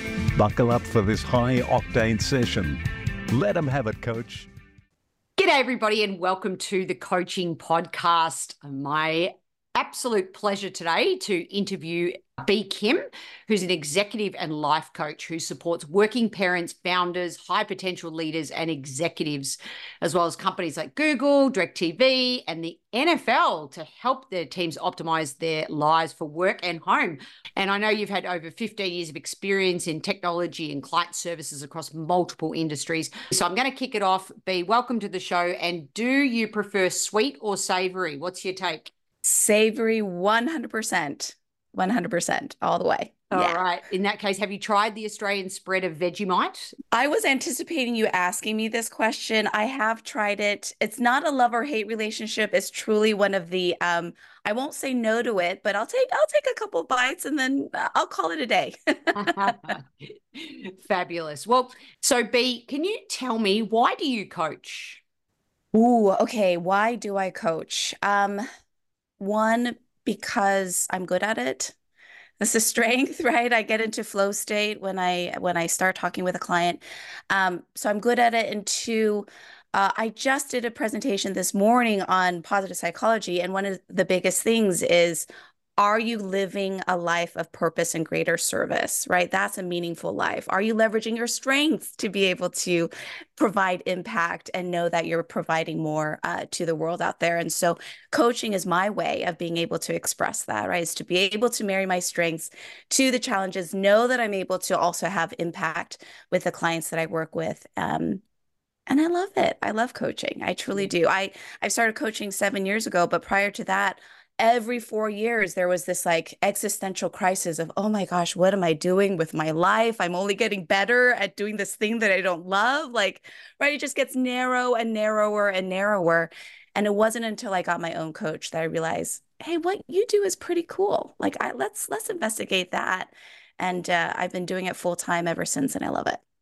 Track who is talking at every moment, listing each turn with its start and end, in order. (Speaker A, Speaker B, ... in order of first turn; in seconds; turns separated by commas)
Speaker A: 0.4-4.5, Speaker B: 5.4-38.9, Speaker C: 39.2-43.6, Speaker B: 43.3-46.7, Speaker C: 46.9-59.8, Speaker B: 59.1-65.0, Speaker C: 65.7-68.4, Speaker C: 69.2-71.8, Speaker C: 72.4-85.3, Speaker C: 85.8-108.2, Speaker C: 108.9-136.2